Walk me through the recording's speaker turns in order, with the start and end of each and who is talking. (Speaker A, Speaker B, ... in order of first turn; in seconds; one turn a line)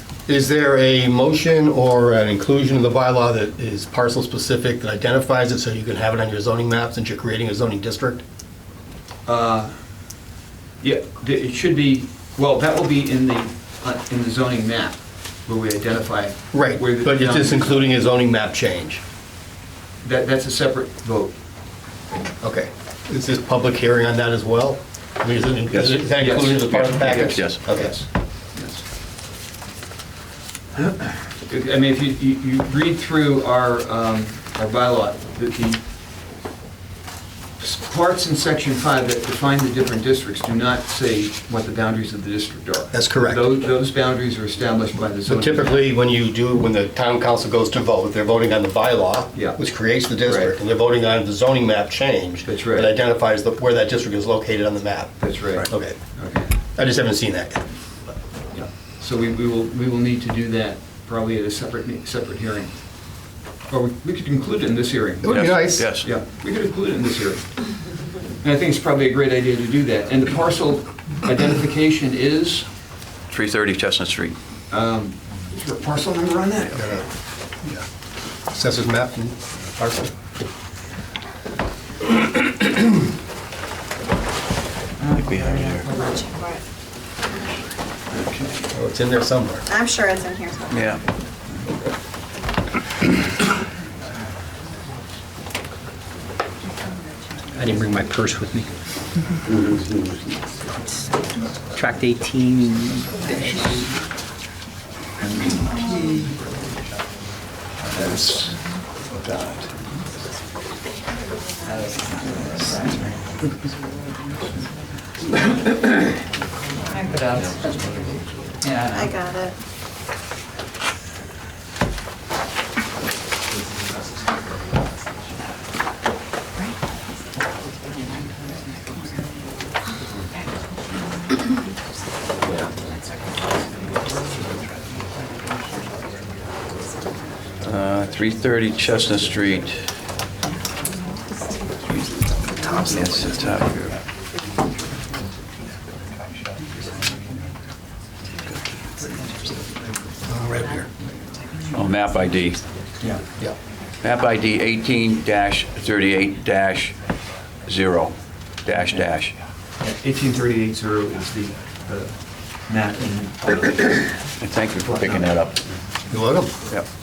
Speaker A: 0.3-8.2
Speaker B: 9.3-9.7
Speaker B: 10.8-17.8
Speaker A: 16.5-19.0
Speaker B: 20.0-21.3
Speaker A: 22.4-27.9
Speaker C: 25.7-26.1
Speaker B: 26.2-28.8
Speaker C: 26.7-27.6
Speaker B: 30.8-35.8
Speaker B: 37.6-45.8
Speaker A: 42.9-43.5
Speaker A: 45.1-56.0
Speaker B: 49.3-49.6
Speaker B: 50.2-50.5
Speaker B: 52.5-52.9
Speaker B: 55.2-56.6
Speaker A: 56.7-57.6
Speaker B: 58.5-63.2
Speaker B: 63.7-67.7
Speaker A: 65.2-65.9
Speaker C: 65.2-66.1
Speaker B: 68.4-72.7
Speaker C: 73.3-74.3
Speaker B: 74.7-77.1
Speaker A: 76.7-77.0
Speaker A: 78.5-80.1
Speaker D: 85.0-86.3
Speaker C: 85.1-85.9
Speaker E: 85.9-86.6
Speaker B: 88.1-88.6
Speaker A: 88.7-89.7
Speaker E: 89.7-90.8
Speaker C: 90.7-91.0
Speaker F: 97.5-98.7
Speaker F: 101.8-103.5
Speaker B: 108.0-108.5
Speaker D: 111.7-113.0
Speaker D: 116.9-118.0
Speaker D: 118.6-119.1
Speaker E: 118.9-119.5
Speaker C: 137.6-139.9
Speaker C: 142.7-143.9
Speaker A: 150.3-150.9
Speaker C: 151.7-152.6
Speaker C: 154.0-156.9
Speaker C: 157.7-158.1
Speaker C: 158.7-159.4
Speaker B: 159.8-164.2
Speaker C: 164.4-165.6
Speaker B: 164.8-165.3
Speaker A: 166.1-166.5